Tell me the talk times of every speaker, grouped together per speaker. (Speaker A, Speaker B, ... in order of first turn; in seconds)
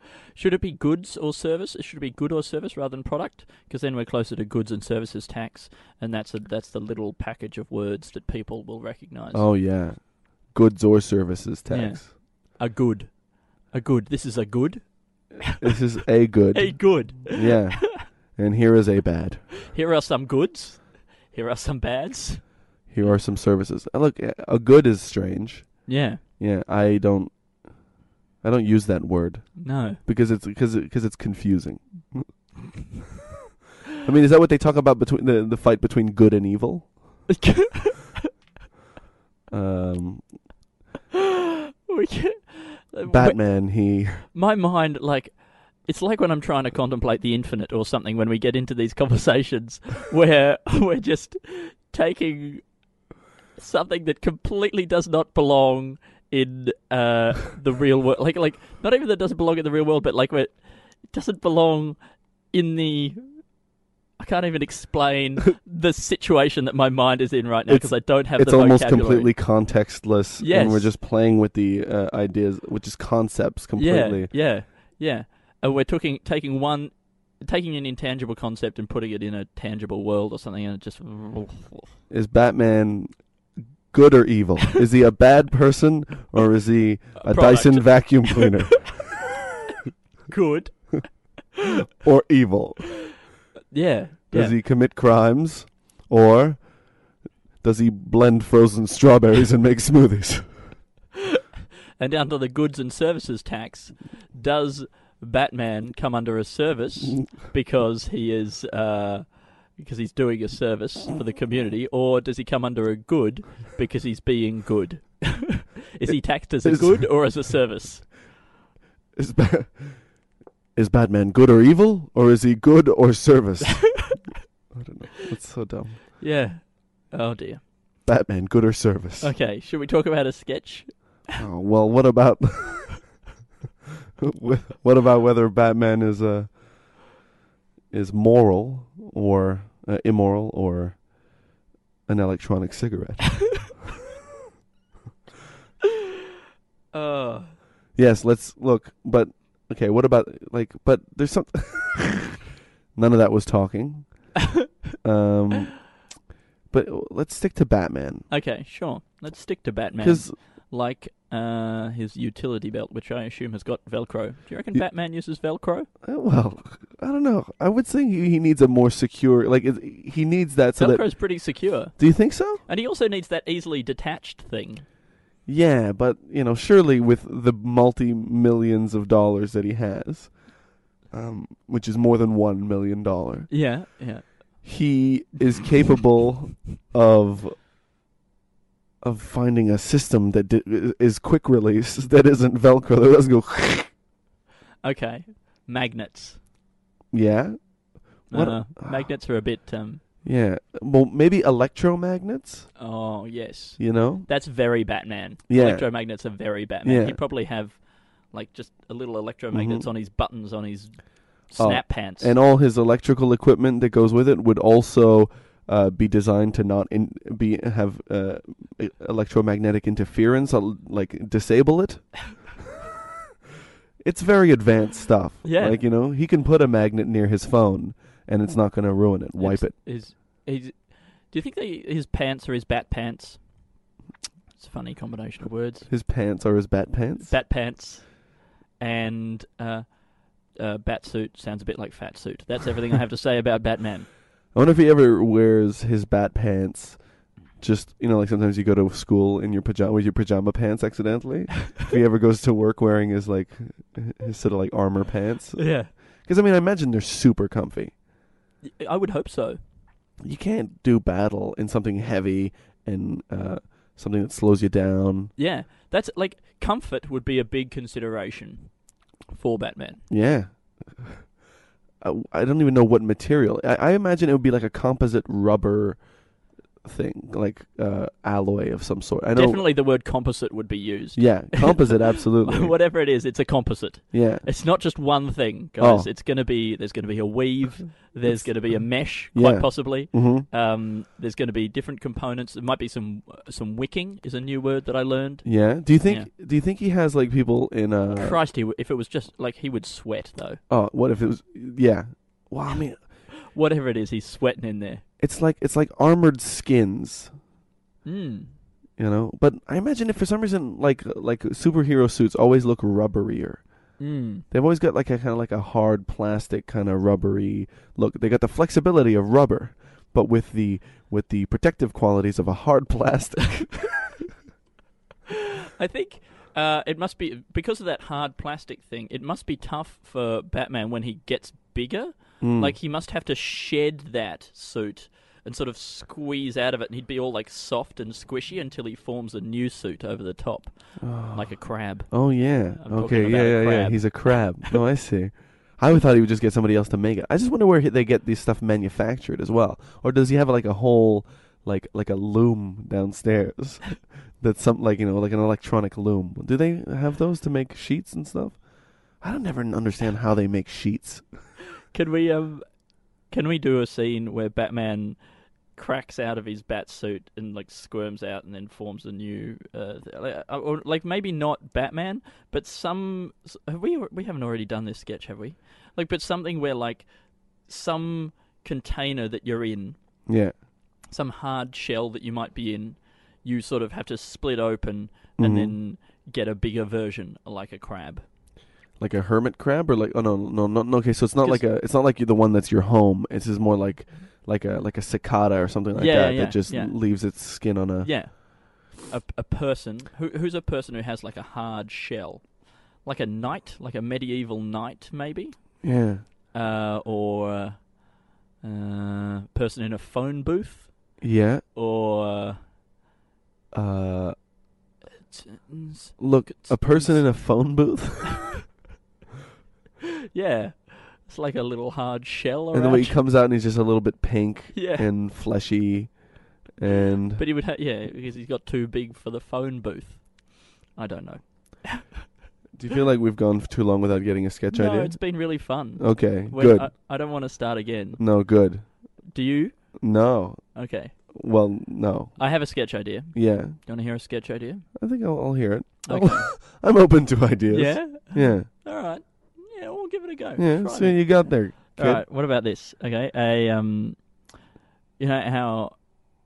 Speaker A: 0.3-9.5, 11.7-15.7, 16.5-18.0, 19.7-22.5, 25.9-26.2, 29.6-30.0, 37.3-38.0, 41.9-43.7, 44.2-52.8, 53.6-62.0, 62.5-63.5, 64.2-69.4, 70.4-70.9, 73.8-81.9, 87.2-88.7, 90.3-91.3, 93.7-94.6, 102.0-118.1, 126.2-127.7, 129.2-131.2, 146.9-147.6, 158.3-165.9, 170.8-174.8, 183.5-184.7, 194.8-196.4, 198.3-200.0, 202.8-212.3, 225.4-225.8, 229.4-233.5, 234.6-235.9, 237.3-244.1, 255.6-255.9, 258.6-259.6, 265.4-270.0, 279.3-296.3, 298.1-300.6, 303.5-305.1, 308.1-308.6, 314.0-314.4, 325.8-344.8, 361.9-365.2, 365.7-380.0, 381.1-388.2, 395.9-397.4, 398.0-405.9, 406.5-411.2, 411.7-412.6, 415.3-417.8, 420.3-423.2, 424.7-425.1, 427.4-432.2, 434.7-438.5, 439.3-440.1, 440.8-441.1, 442.4-444.9, 446.1-446.6, 447.7-454.5, 455.2-456.2
Speaker B: 9.3-12.1, 15.5-19.6, 22.9-27.9, 28.4-32.3, 34.0-37.2, 39.5-40.3, 43.1-44.3, 67.7-74.4, 82.1-83.2, 83.9-89.1, 92.0-93.1, 94.3-97.0, 97.6-100.5, 116.1-117.4, 119.2-120.1, 120.8-126.0, 128.1-129.3, 131.3-133.2, 134.2-137.0, 137.9-141.1, 142.1-143.8, 147.9-152.4, 152.9-154.5, 155.0-156.0, 156.7-158.3, 160.0-160.3, 166.0-172.6, 175.5-183.6, 184.6-187.6, 189.0-193.9, 197.1-199.1, 200.2-202.7, 203.8-204.3, 205.5-205.9, 206.8-207.2, 209.5-209.9, 211.6-222.5, 224.0-229.8, 235.9-237.3, 244.5-247.0, 247.6-258.0, 260.2-265.3, 270.1-271.3, 272.0-276.1, 276.8-279.6, 281.1-282.8, 284.1-284.5, 285.8-286.1, 288.3-290.5, 295.4-298.4, 300.7-303.1, 305.2-307.4, 309.0-324.0, 332.4-332.8, 341.0-361.5, 380.3-380.5, 385.4-385.8, 389.0-398.2, 405.8-406.2, 411.2-411.6, 413.7-414.4, 416.2-418.5, 422.7-427.4, 432.7-436.9, 438.2-439.2, 440.0-443.8, 445.0-448.7, 450.6-452.2